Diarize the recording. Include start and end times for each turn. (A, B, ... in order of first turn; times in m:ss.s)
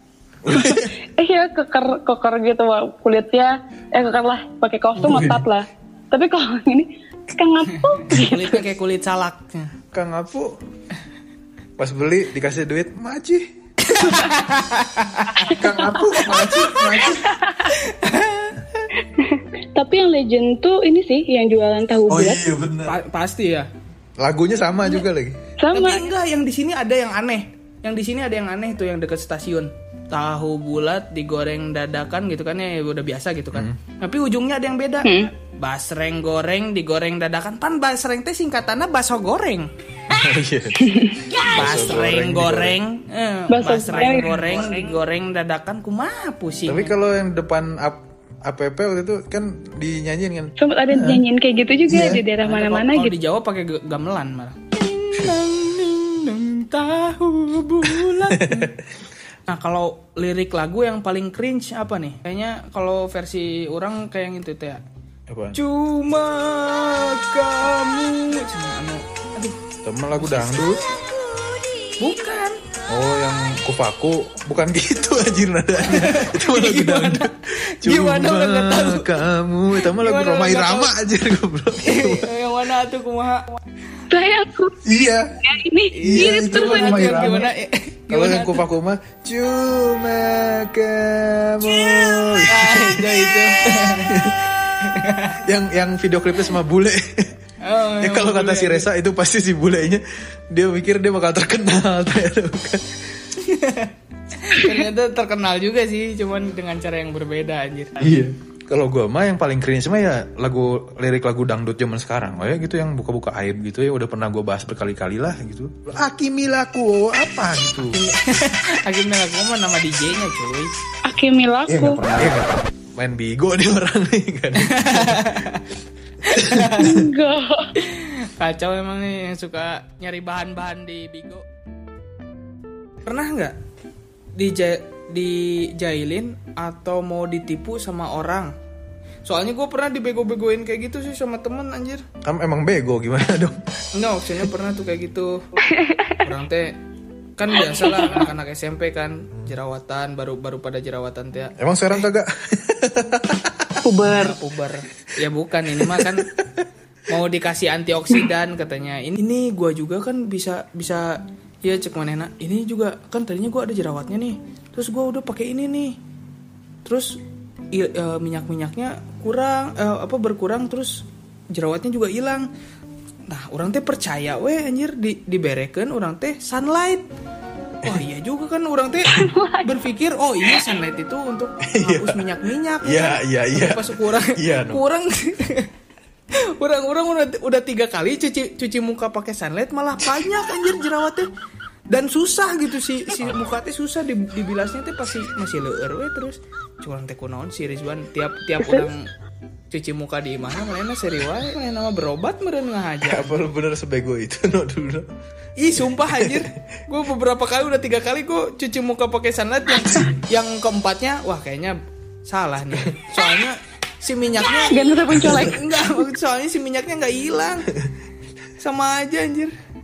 0:00.4-0:01.0 A
0:00.5-0:08.6 B
0:05.0-0:05.4 A
0:08.0-0:09.7 C
0:09.9-0:10.6 A
0:11.8-0:13.5 A
0:13.8-0:15.6 C
0:15.4-0:17.3 B
0:15.5-0:17.3 A
0:16.2-0:18.9 C
0:19.1-0:22.4 B
0:22.1-0:23.0 A
0:22.8-0:23.7 C
0:24.2-0:25.4 A
0:25.6-0:26.0 B
0:25.7-0:39.7 C
0:33.5-0:33.8 A
0:35.0-0:35.3 B
0:40.1-0:42.8 A
0:40.9-0:41.1 B
0:41.4-0:46.9 C
0:43.5-0:44.9 B
0:46.7-0:51.2 A
0:50.6-0:53.1 B
0:51.9-0:52.2 A
0:52.4-0:58.7 C
0:57.9-0:58.8 A
0:59.5-1:04.8 C
1:05.3-1:05.6 A
1:05.5-1:09.6 C
1:09.8-1:10.8 A
1:10.2-1:10.7 C
1:12.0-1:12.6 C
1:12.9-1:22.3 A
1:15.8-1:19.2 C
1:19.7-1:20.9 C
1:21.8-1:23.5 C
1:24.1-1:27.5 B
1:24.8-1:25.4 A
1:25.9-1:28.6 C
1:26.0-1:27.5 A
1:28.1-1:34.4 A
1:32.4-1:34.2 C
1:34.8-1:35.4 C
1:35.4-1:37.3 A
1:37.6-1:38.9 C
1:38.0-1:43.0 A
1:43.3-1:48.2 C
1:48.0-1:58.0 A
1:57.9-2:00.7 C
2:01.0-2:02.0 B
2:01.7-2:05.3 A
2:04.6-2:05.6 C
2:06.2-2:07.0 C
2:06.4-2:07.0 A
2:06.8-2:07.7 B
2:07.8-2:11.4 C
2:13.0-2:13.6 C
2:14.3-2:18.5 C
2:19.2-2:22.0 C
2:22.2-2:23.6 A
2:23.9-2:25.6 C
2:25.7-2:26.2 B
2:26.2-2:26.8 C
2:27.4-2:31.6 C
2:28.0-2:28.2 B
2:31.6-2:33.8 A
2:33.8-2:34.4 B
2:34.1-2:36.3 C
2:35.7-2:36.6 A
2:37.1-2:46.0 C
2:46.8-2:47.2 C
2:47.7-2:52.5 C
2:53.3-2:57.1 C
2:57.8-3:05.7 C
2:59.0-2:59.8 B
3:01.7-3:02.2 A
3:02.8-3:04.8 A
3:06.5-3:11.3 C
3:11.9-3:19.1 C
3:18.6-3:18.9 B
3:19.7-3:23.4 C
3:23.0-3:25.1 A
3:25.6-3:37.8 C
3:26.1-3:26.5 A
3:34.6-3:35.6 B
3:38.6-3:39.5 C